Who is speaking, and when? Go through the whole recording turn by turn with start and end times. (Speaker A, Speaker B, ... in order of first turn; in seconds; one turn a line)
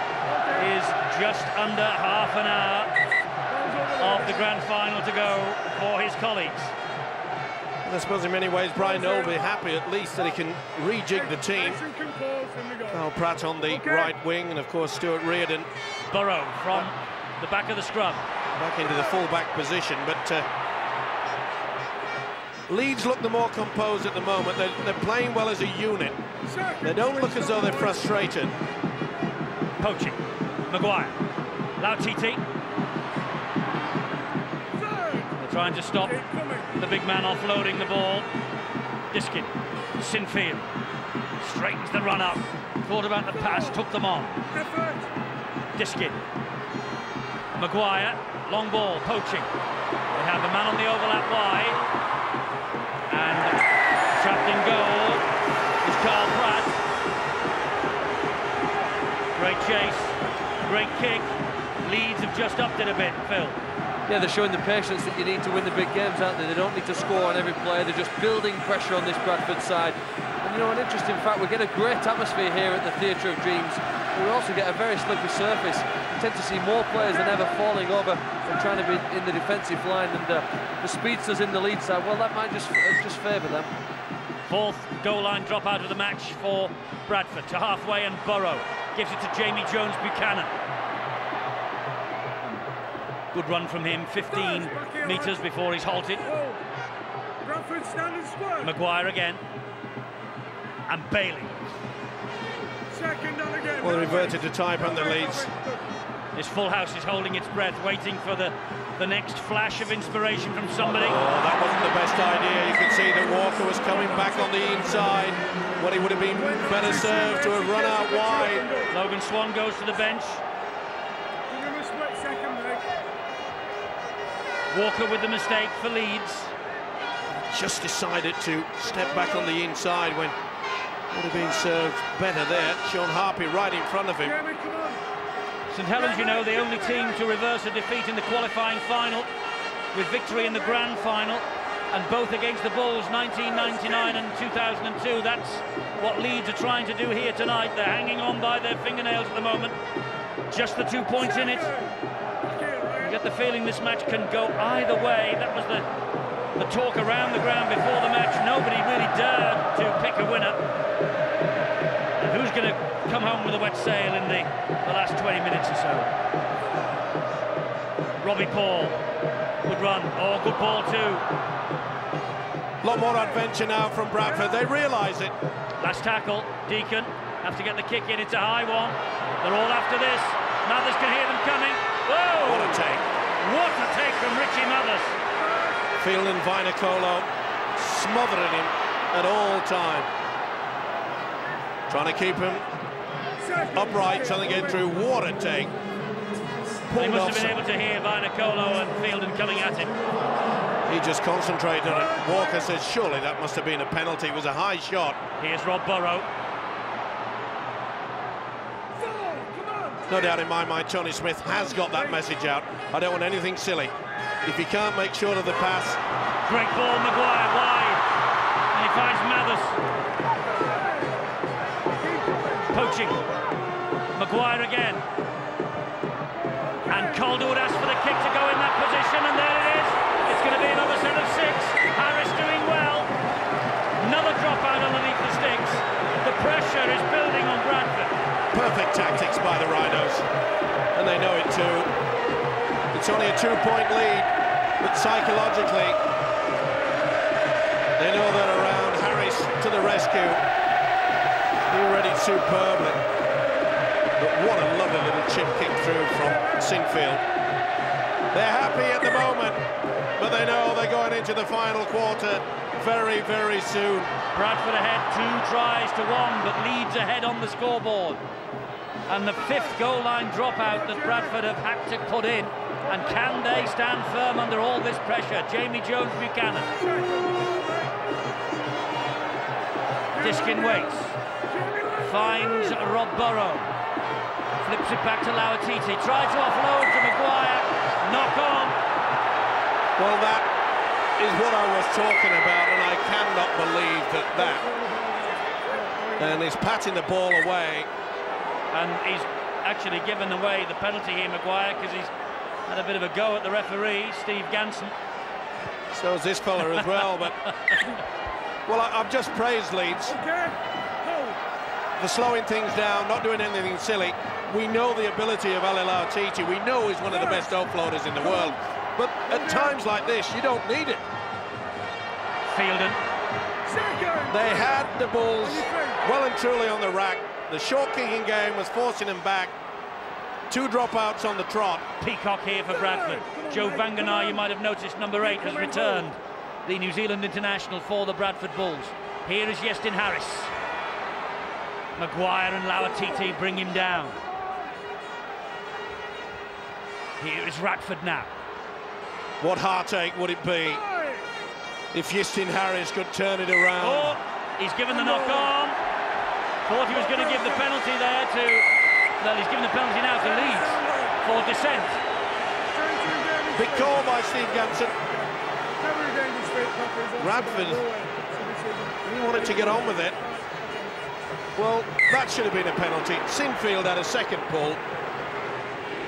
Speaker A: 0.2-0.7
Speaker B: 0.5-3.0
Speaker A: 3.5-4.5
Speaker B: 4.0-6.7
Speaker C: 7.8-11.8
Speaker A: 8.8-9.5
Speaker A: 11.1-13.0
Speaker C: 12.9-15.7
Speaker A: 13.6-14.2
Speaker B: 16.1-18.2
Speaker C: 18.6-20.5
Speaker C: 22.7-26.2
Speaker A: 26.5-28.4
Speaker C: 26.8-28.6
Speaker B: 29.8-31.2
Speaker B: 31.8-32.4
Speaker A: 34.8-35.4
Speaker B: 35.4-36.2
Speaker A: 36.0-36.7
Speaker B: 36.8-38.3
Speaker B: 39.1-40.7
Speaker B: 41.4-44.4
Speaker A: 43.4-43.8
Speaker A: 44.5-45.1
Speaker B: 45.8-46.2
Speaker B: 47.6-49.5
Speaker B: 50.1-51.8
Speaker B: 53.1-53.6
Speaker B: 54.1-55.2
Speaker B: 55.8-56.8
Speaker B: 59.4-63.6
Speaker D: 64.1-83.7
Speaker B: 84.5-90.5
Speaker B: 93.3-96.3
Speaker A: 94.2-95.5
Speaker A: 96.2-96.6
Speaker A: 97.5-98.7
Speaker B: 98.6-99.4
Speaker B: 100.9-101.7
Speaker A: 102.9-105.8
Speaker C: 103.8-105.5
Speaker B: 106.3-111.2
Speaker C: 110.9-118.7
Speaker A: 113.9-115.1
Speaker A: 116.3-118.9
Speaker B: 118.9-120.4
Speaker A: 121.5-122.9
Speaker B: 124.7-126.5
Speaker C: 127.5-130.4
Speaker A: 128.9-129.6
Speaker C: 131.1-134.4
Speaker A: 134.2-135.0
Speaker B: 135.7-139.3
Speaker A: 135.9-137.2
Speaker B: 139.9-149.8
Speaker A: 143.3-144.2
Speaker B: 150.5-151.7
Speaker A: 151.2-153.2
Speaker B: 153.0-155.9
Speaker B: 156.6-160.6
Speaker B: 162.2-166.1
Speaker B: 168.2-169.0
Speaker B: 169.7-171.2
Speaker C: 172.8-175.3
Speaker A: 172.9-173.4
Speaker A: 174.3-174.7
Speaker B: 175.8-182.8
Speaker C: 182.4-183.1
Speaker B: 183.4-185.2
Speaker A: 185.4-185.8
Speaker C: 186.0-190.1
Speaker C: 191.9-192.6
Speaker A: 193.4-194.8
Speaker C: 193.7-195.7
Speaker C: 196.9-197.6
Speaker B: 196.9-200.0
Speaker C: 200.9-205.2
Speaker A: 201.9-202.7
Speaker B: 205.4-206.3
Speaker A: 209.0-210.4
Speaker C: 210.1-213.9
Speaker A: 211.5-212.2
Speaker C: 214.4-216.0
Speaker B: 216.5-218.0
Speaker B: 218.7-219.8
Speaker A: 220.6-221.2
Speaker A: 221.9-222.8
Speaker B: 222.7-223.2
Speaker B: 224.2-225.0
Speaker A: 226.5-227.3
Speaker B: 226.9-233.1
Speaker B: 234.0-238.1
Speaker C: 238.5-240.3
Speaker C: 240.9-241.9
Speaker C: 242.9-244.3
Speaker C: 244.8-246.0
Speaker C: 248.0-250.4
Speaker C: 251.7-253.0
Speaker C: 254.2-257.2
Speaker C: 258.3-259.6
Speaker C: 260.2-264.1
Speaker B: 264.3-268.2
Speaker B: 269.1-276.7
Speaker A: 269.5-269.8
Speaker A: 270.6-271.4
Speaker A: 272.9-273.7
Speaker A: 276.7-278.0
Speaker A: 280.1-283.0
Speaker B: 280.2-281.2
Speaker B: 282.0-283.7
Speaker B: 284.6-288.8
Speaker C: 290.0-290.5
Speaker C: 291.2-294.6
Speaker A: 294.4-296.4
Speaker C: 296.2-297.9
Speaker B: 298.7-302.1
Speaker B: 302.7-304.9
Speaker C: 305.9-307.4
Speaker B: 306.7-307.8
Speaker C: 308.7-310.2
Speaker A: 310.1-311.4
Speaker C: 312.0-321.1
Speaker A: 317.1-317.5
Speaker A: 318.2-318.6
Speaker A: 319.3-320.1
Speaker B: 322.5-323.0
Speaker A: 323.7-326.0
Speaker C: 324.3-329.5
Speaker C: 330.5-331.9
Speaker B: 332.0-340.5
Speaker A: 332.7-334.4
Speaker A: 335.2-336.1
Speaker B: 342.0-344.2
Speaker B: 347.2-348.3
Speaker C: 349.4-350.8
Speaker A: 350.7-351.3
Speaker C: 351.9-354.1
Speaker B: 353.8-355.8
Speaker A: 354.9-355.5
Speaker B: 356.7-358.7
Speaker A: 356.9-357.7
Speaker B: 359.2-362.0
Speaker A: 360.2-361.2
Speaker A: 362.7-364.1
Speaker C: 363.6-365.0
Speaker A: 365.8-370.9
Speaker C: 367.2-367.9
Speaker C: 369.1-370.2
Speaker C: 371.6-374.8